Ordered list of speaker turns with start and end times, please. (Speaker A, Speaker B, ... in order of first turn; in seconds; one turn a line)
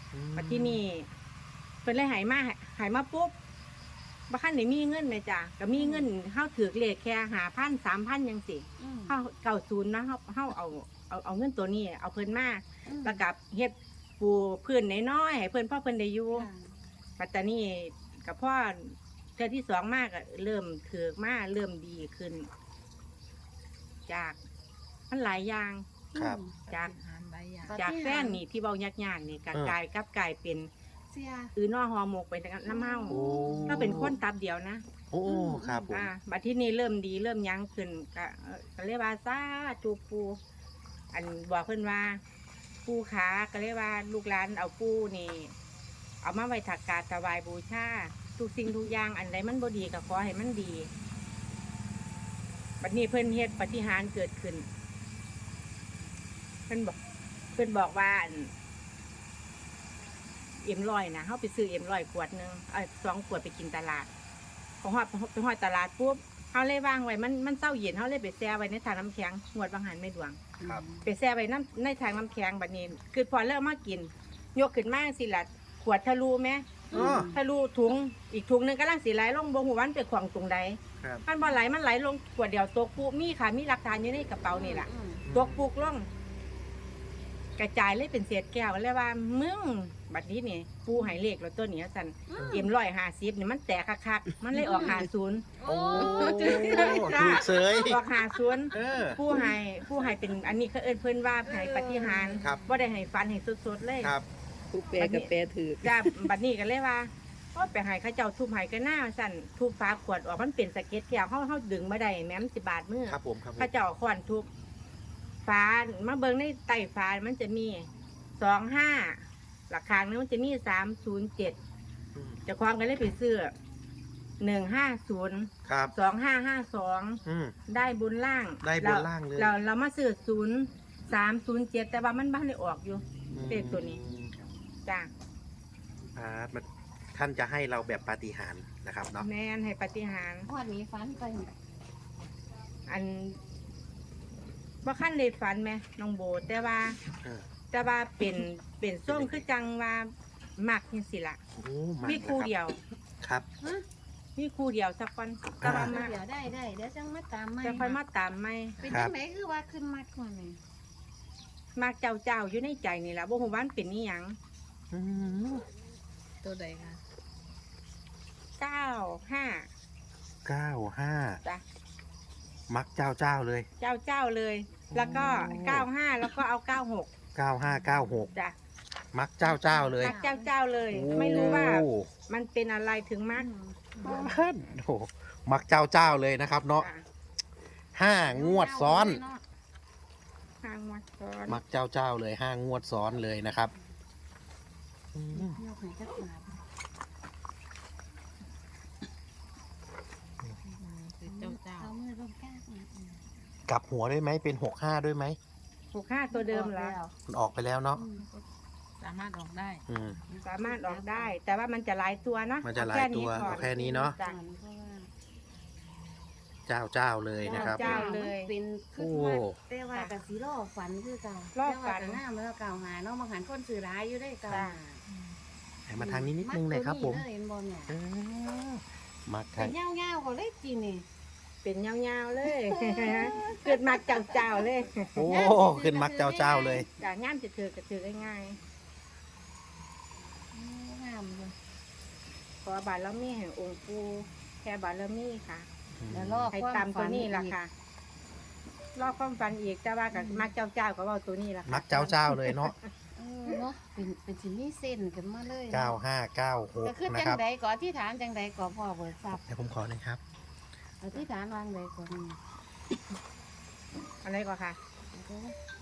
Speaker A: 0.1-0.8
Speaker B: 0.4-1.1
Speaker B: 1.9-3.3
Speaker B: 4.3-16.5
Speaker C: 5.8-6.1
Speaker C: 8.8-9.2
Speaker C: 12.9-13.2
Speaker C: 16.3-16.7
Speaker B: 17.2-22.5
Speaker B: 24.1-24.4
Speaker B: 25.1-25.9
Speaker C: 26.1-26.6
Speaker A: 26.1-26.4
Speaker D: 26.6-27.8
Speaker B: 26.7-26.9
Speaker C: 27.6-28.4
Speaker B: 27.8-30.7
Speaker C: 31.1-31.5
Speaker B: 31.6-34.8
Speaker C: 32.7-34.1
Speaker A: 33.1-34.2
Speaker A: 35.1-36.0
Speaker C: 35.2-36.0
Speaker B: 35.9-40.4
Speaker B: 41.1-42.2
Speaker B: 42.9-45.5
Speaker B: 46.2-50.9
Speaker B: 52.8-54.7
Speaker B: 56.7-57.0
Speaker B: 57.5-58.5
Speaker B: 60.6-64.1
Speaker B: 64.8-70.4
Speaker C: 70.6-71.1
Speaker B: 71.0-86.1
Speaker C: 76.9-77.4
Speaker A: 76.9-77.3
Speaker A: 81.0-81.2
Speaker C: 84.5-85.2
Speaker A: 85.3-85.6
Speaker B: 87.6-95.5
Speaker C: 92.3-92.7
Speaker A: 92.4-92.7
Speaker C: 94.6-95.1
Speaker C: 95.6-97.4
Speaker A: 95.7-98.0
Speaker B: 96.2-104.1
Speaker A: 98.7-99.2
Speaker C: 98.9-99.5
Speaker C: 101.4-102.8
Speaker D: 104.7-106.3
Speaker B: 105.0-105.3
Speaker B: 105.8-114.5
Speaker A: 113.1-113.7
Speaker B: 115.5-121.6
Speaker A: 122.2-122.4
Speaker B: 122.5-123.5
Speaker B: 124.4-134.0
Speaker A: 125.7-125.9
Speaker A: 127.2-127.5
Speaker A: 128.6-129.6
Speaker A: 133.3-134.4
Speaker A: 136.1-139.3
Speaker B: 139.2-140.5
Speaker C: 140.5-141.5
Speaker B: 142.9-143.4
Speaker B: 144.8-147.0
Speaker B: 147.7-151.4
Speaker A: 149.1-149.5
Speaker A: 151.6-152.5
Speaker B: 152.0-152.8
Speaker A: 153.2-153.5
Speaker B: 154.4-156.2
Speaker A: 155.6-155.9
Speaker C: 155.6-157.9
Speaker B: 157.6-158.8
Speaker C: 158.8-160.6
Speaker A: 158.9-159.1
Speaker B: 161.8-164.4
Speaker A: 164.9-165.6
Speaker D: 166.4-167.0
Speaker B: 168.6-169.7
Speaker A: 170.4-171.4
Speaker A: 172.7-173.7
Speaker B: 173.8-177.1
Speaker A: 174.9-175.9
Speaker C: 175.1-175.5
Speaker A: 177.3-178.3
Speaker C: 177.7-178.3
Speaker A: 179.1-180.2
Speaker C: 179.4-180.5
Speaker B: 180.0-183.5
Speaker A: 180.9-182.1
Speaker C: 181.3-181.6
Speaker C: 183.3-183.9
Speaker A: 184.0-186.9
Speaker D: 184.0-184.4
Speaker B: 186.8-187.0
Speaker A: 187.9-189.2
Speaker C: 188.2-189.4
Speaker B: 190.6-191.6
Speaker A: 191.5-193.7
Speaker A: 195.1-195.6
Speaker C: 195.3-196.6
Speaker D: 200.7-201.9
Speaker C: 201.2-203.2
Speaker A: 203.7-205.4
Speaker B: 205.9-206.9
Speaker C: 206.3-207.1
Speaker A: 207.3-208.0
Speaker C: 207.9-208.3
Speaker D: 208.2-208.4
Speaker D: 209.0-209.8
Speaker A: 209.9-210.2
Speaker C: 210.3-211.4
Speaker B: 210.4-214.4
Speaker A: 212.6-214.2
Speaker C: 213.4-215.1
Speaker A: 216.7-218.1
Speaker B: 217.4-218.5
Speaker C: 217.4-225.0
Speaker A: 219.0-219.6
Speaker B: 221.6-222.2
Speaker B: 224.5-224.8
Speaker D: 225.1-225.4
Speaker A: 225.9-227.3
Speaker C: 226.0-227.9
Speaker A: 227.9-229.7
Speaker C: 229.6-231.1
Speaker B: 231.6-235.4
Speaker C: 232.4-234.6
Speaker A: 235.2-236.9
Speaker C: 235.3-236.9
Speaker B: 237.0-238.6
Speaker C: 240.5-241.6
Speaker B: 242.6-245.7
Speaker A: 246.0-246.5
Speaker C: 246.1-247.6
Speaker B: 246.5-247.7
Speaker B: 249.0-252.9
Speaker C: 250.1-250.5
Speaker A: 251.7-252.7
Speaker C: 253.2-256.0
Speaker A: 255.7-257.4
Speaker C: 256.8-259.4
Speaker A: 259.5-260.2
Speaker C: 261.0-262.4
Speaker B: 264.2-264.8
Speaker C: 265.1-265.6